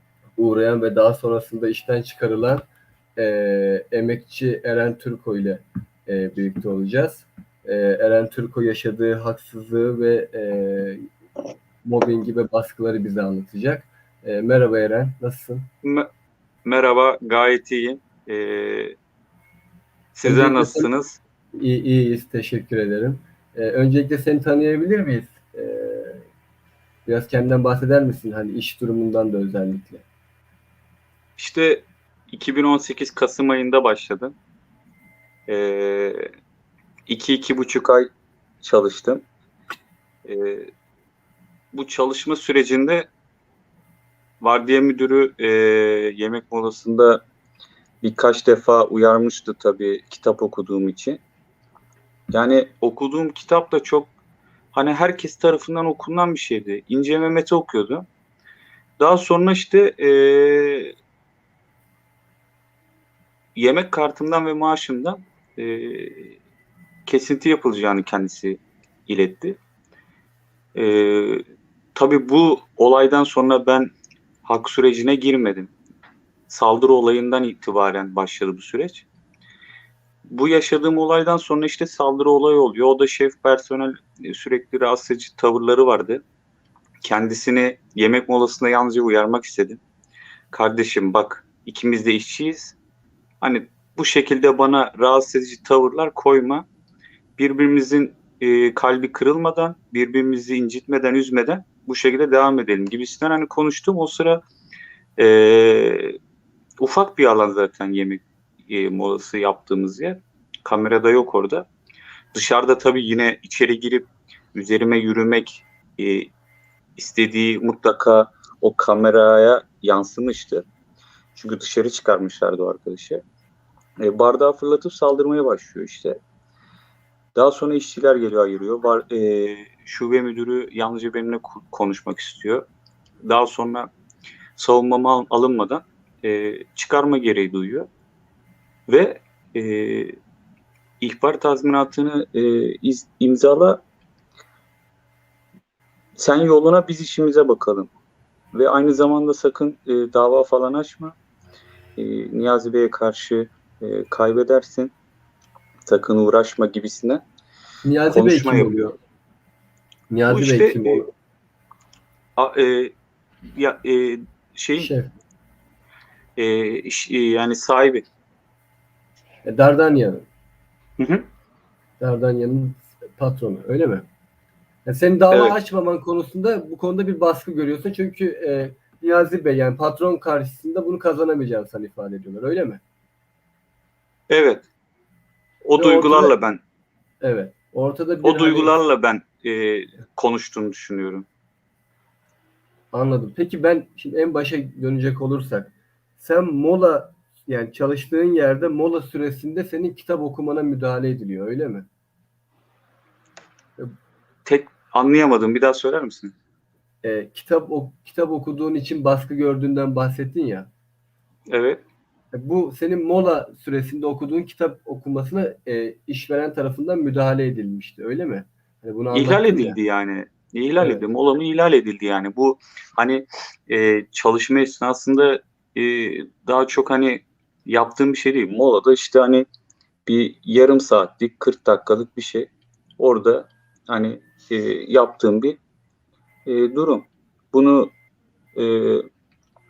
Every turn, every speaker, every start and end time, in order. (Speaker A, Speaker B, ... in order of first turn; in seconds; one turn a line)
Speaker A: 0.4-11.1
Speaker A: 11.8-15.7
Speaker B: 15.8-16.1
Speaker B: 16.6-18.9
Speaker B: 20.1-21.2
Speaker A: 20.2-20.9
Speaker A: 21.5-26.2
Speaker A: 27.1-30.0
Speaker B: 31.4-34.3
Speaker B: 35.5-36.3
Speaker B: 37.1-38.1
Speaker B: 38.6-39.2
Speaker B: 40.2-40.7
Speaker B: 41.7-43.1
Speaker B: 44.4-47.2
Speaker B: 48.0-51.2
Speaker B: 52.3-54.1
Speaker B: 54.7-58.0
Speaker B: 59.0-60.9
Speaker B: 63.5-66.3
Speaker B: 67.0-69.6
Speaker B: 70.7-73.9
Speaker B: 74.4-75.7
Speaker B: 76.5-79.0
Speaker B: 80.3-86.2
Speaker B: 87.0-89.8
Speaker B: 90.5-92.8
Speaker B: 93.4-96.6
Speaker B: 97.4-104.4
Speaker B: 105.2-106.2
Speaker B: 106.8-111.7
Speaker B: 112.3-116.3
Speaker B: 117.0-120.6
Speaker B: 121.3-123.2
Speaker B: 124.0-126.2
Speaker B: 127.3-132.6
Speaker B: 133.2-133.9
Speaker B: 134.6-137.9
Speaker B: 138.9-140.2
Speaker B: 141.0-143.8
Speaker B: 146.2-147.9
Speaker B: 148.5-151.1
Speaker B: 152.0-154.9
Speaker B: 155.9-157.2
Speaker A: 157.8-158.9
Speaker B: 158.1-158.8
Speaker A: 160.1-161.1
Speaker B: 160.3-161.0
Speaker B: 162.4-162.9
Speaker B: 163.5-164.9
Speaker A: 164.8-165.1
Speaker B: 166.4-168.1
Speaker A: 169.4-170.2
Speaker B: 171.0-171.2
Speaker A: 172.0-174.0
Speaker A: 174.8-182.8
Speaker B: 175.3-175.6
Speaker B: 184.3-184.7
Speaker B: 185.6-186.6
Speaker A: 185.8-186.3
Speaker A: 187.2-188.7
Speaker B: 188.2-191.3
Speaker A: 192.9-201.9
Speaker B: 204.4-206.3
Speaker A: 207.0-210.7
Speaker B: 211.5-211.8
Speaker A: 212.3-219.8
Speaker B: 219.1-229.5
Speaker B: 230.1-235.6
Speaker B: 236.5-237.9
Speaker B: 238.6-239.1